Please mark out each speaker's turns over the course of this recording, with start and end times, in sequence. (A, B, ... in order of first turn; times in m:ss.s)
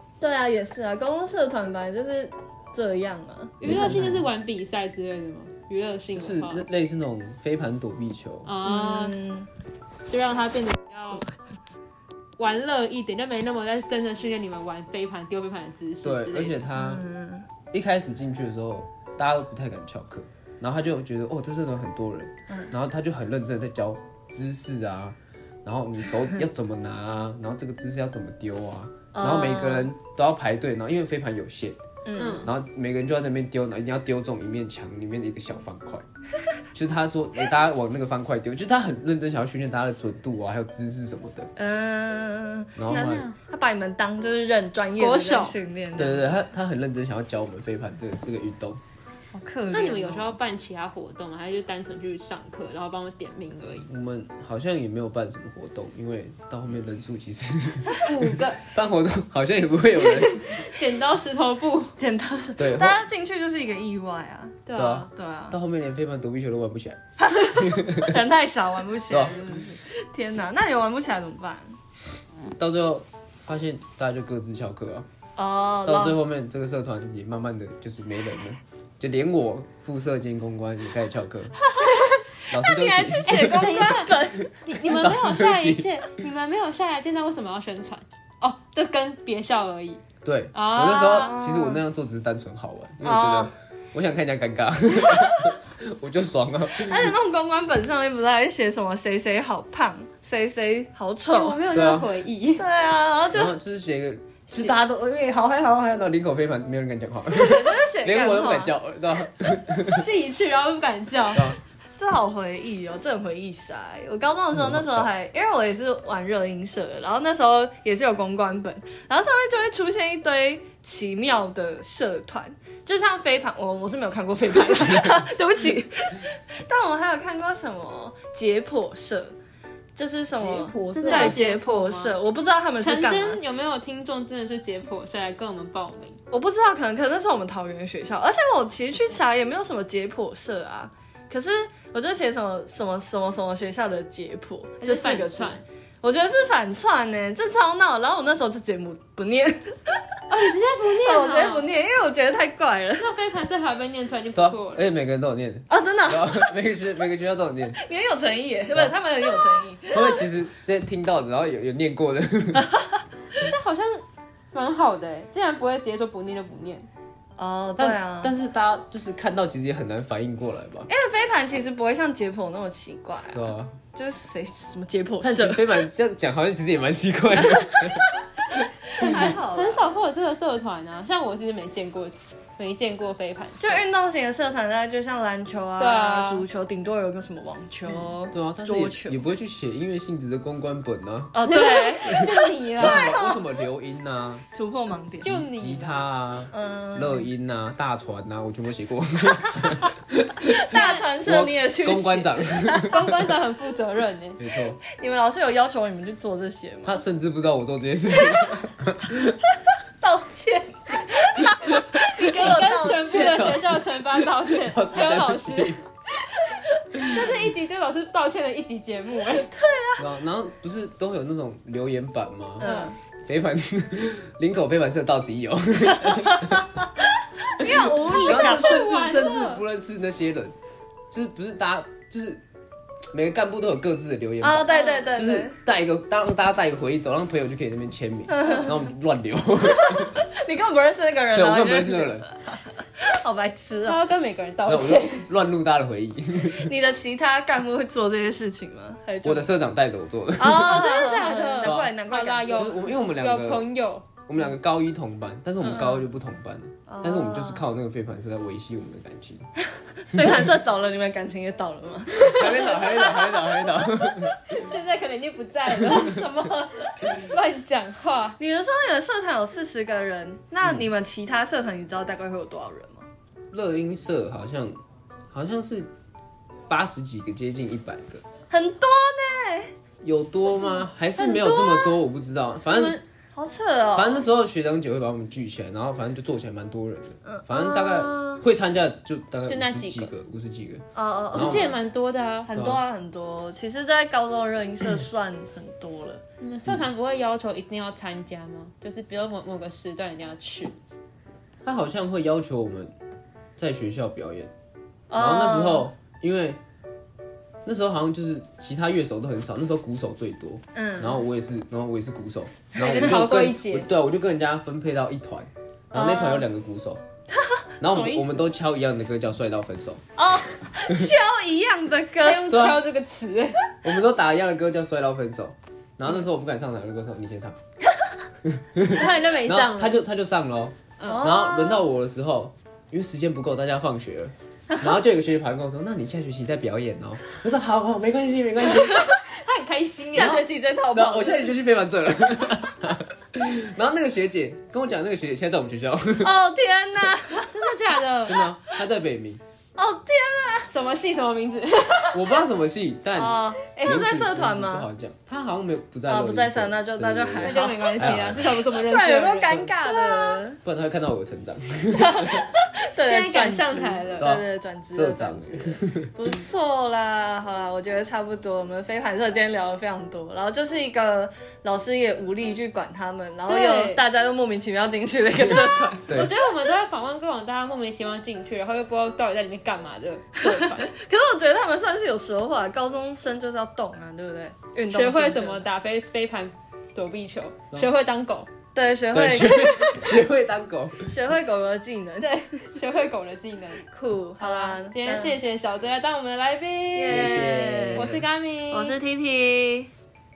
0:00.2-0:04.0 A
0:03.6-0:06.7 B
0:03.6-0:04.3 C
0:06.1-0:08.5 C
0:08.5-0:09.2 B
0:08.6-0:09.5 A
0:10.1-0:11.2 B
0:12.4-0:16.7 B
0:16.0-0:17.0 C
0:16.8-0:17.5 A
0:17.7-0:31.8 C
0:29.1-0:29.9 A
0:32.0-0:32.5 A
0:32.2-0:32.5 B
0:32.4-0:36.0 C
0:36.7-0:41.5 C
0:41.6-0:46.4 A
0:42.8-0:43.3 C
0:42.9-0:43.4 B
0:45.0-0:45.6 B
0:46.0-0:48.8 C
0:49.4-0:50.4 A
0:49.7-0:53.9 B
0:53.9-1:00.6 C
0:58.0-0:58.6 B
1:00.2-1:02.0 B
1:02.0-1:04.6 A
1:02.6-1:03.0 C
1:04.7-1:05.1 B
1:04.7-1:07.0 C
1:05.1-1:05.6 A
1:07.2-1:11.8 A
1:07.6-1:08.2 C
1:09.1-1:09.6 C
1:12.6-1:15.1 C
1:15.4-1:16.2 A
1:15.9-1:21.6 C
1:21.7-1:24.6 A
1:22.5-1:25.9 C
1:23.3-1:30.0 B
1:30.2-1:37.1 C
1:30.5-1:31.2 B
1:30.8-1:31.8 A
1:33.0-1:33.5 A
1:34.9-1:35.6 A
1:36.8-1:41.6 A
1:41.3-1:42.6 B
1:41.7-1:42.1 C
1:42.6-1:43.6 A
1:43.3-1:50.1 C
1:47.3-1:48.7 A
1:50.0-1:51.6 B
1:52.0-2:09.4 A
1:54.5-1:55.1 C
2:10.0-2:13.4 A
2:10.3-2:11.4 C
2:10.9-2:12.2 B
2:12.8-2:16.2 B
2:16.3-2:30.2 A
2:24.8-2:25.6 B
2:30.3-2:31.7 B
2:31.0-2:33.1 A
2:33.0-2:34.9 B
2:34.4-2:37.8 C
2:35.7-2:36.7 A
2:37.7-2:40.3 A
2:39.9-2:42.7 C
2:43.4-2:46.9 B
2:47.4-2:48.3 A
2:47.8-2:50.9 C
2:50.9-2:55.8 A
2:53.3-2:53.8 C
2:55.2-2:58.1 C
2:57.4-2:58.2 A
2:58.9-2:59.8 A
2:59.0-3:03.8 B
2:59.0-2:59.3 C
3:03.6-3:09.2 A
3:05.8-3:06.4 B
3:08.3-3:14.4 C
3:11.3-3:13.4 A
3:11.4-3:13.2 B
3:14.5-3:15.4 A
3:15.2-3:23.1 C
3:15.2-3:16.0 B
3:16.5-3:17.3 A
3:19.4-3:19.8 A
3:20.5-3:23.0 A
3:20.7-3:21.1 B
3:22.9-3:24.4 B
3:24.4-3:24.8 C
3:24.9-3:27.0 A
3:26.8-3:29.4 C
3:28.2-3:28.5 A
3:30.0-3:33.6 A
3:32.2-3:35.8 C
3:32.2-3:35.8 B
3:36.4-3:37.2 A
3:37.0-3:39.5 B
3:39.5-3:40.0 A
3:40.0-3:42.7 C
3:42.6-3:43.0 A
3:42.6-3:42.9 B
3:43.2-3:46.7 C
3:45.9-3:46.7 A
3:47.5-3:48.9 A
3:48.0-3:49.6 B
3:48.2-3:50.5 C
3:51.1-3:52.4 C
3:53.1-4:00.2 C
3:54.4-3:55.6 A
3:58.3-3:58.8 A
3:59.7-4:04.0 A
4:01.3-4:02.3 C
4:03.8-4:05.3 B
4:04.7-4:06.7 C
4:06.5-4:09.5 A
4:09.2-4:11.0 C
4:10.4-4:12.8 A
4:10.5-4:14.1 B
4:11.6-4:12.0 C
4:12.5-4:13.7 C
4:14.3-4:19.5 C
4:15.6-4:16.0 B
4:16.9-4:17.7 A
4:20.0-4:24.6 A
4:20.1-4:20.4 C
4:22.1-4:24.3 C
4:24.6-4:26.2 B
4:25.8-4:27.2 A
4:27.2-4:28.4 B
4:28.4-4:33.1 A
4:33.5-4:34.8 C
4:35.3-4:35.9 C
4:36.7-4:38.2 C
4:38.5-4:39.7 A
4:40.0-4:43.0 C
4:40.7-4:42.0 B
4:42.7-4:43.0 B
4:43.4-4:44.2 A
4:44.0-4:51.7 C
4:47.2-4:48.4 A
4:49.5-4:50.1 B
4:51.0-4:51.8 A
4:51.3-4:52.5 B
4:52.5-4:56.2 A
4:52.5-4:52.8 C
4:56.4-5:00.8 B
5:01.6-5:02.9 C
5:03.6-5:04.5 C
5:05.1-5:05.9 A
5:05.2-5:06.6 C
5:07.6-5:17.0 C
5:10.7-5:11.2 A
5:12.8-5:13.9 B
5:15.9-5:16.5 A
5:17.8-5:20.0 C
5:17.9-5:18.3 A
5:20.2-5:22.5 A
5:22.2-5:23.6 B
5:22.5-5:22.8 C
5:23.8-5:27.6 C
5:28.4-5:39.1 C
5:28.9-5:30.0 B
5:31.0-5:31.3 B
5:31.1-5:31.9 A
5:38.7-5:39.1 A
5:39.3-5:40.5 B
5:40.1-5:41.5 A
5:40.1-5:46.3 C
5:46.2-5:47.6 A
5:47.5-5:48.5 B
5:48.3-5:49.4 C
5:49.8-5:50.7 A
5:50.7-5:52.2 B
5:52.1-5:58.5 C
5:53.2-5:54.9 A
5:53.8-5:54.0 B
5:56.1-5:58.2 A
5:57.4-6:00.4 B
5:58.7-6:00.6 A
6:00.6-6:02.5 C
6:01.9-6:16.2 A
6:03.0-6:04.3 B
6:04.2-6:06.1 C
6:13.5-6:14.0 B
6:16.1-6:20.9 B
6:20.4-6:25.7 A
6:24.9-6:28.5 B
6:28.8-6:30.3 A
6:29.1-6:31.2 C
6:31.0-6:32.4 A
6:32.2-6:33.8 B
6:33.9-6:35.4 A
6:34.4-6:39.0 B
6:37.0-6:38.1 A
6:37.0-6:38.2 C
6:38.7-6:39.9 A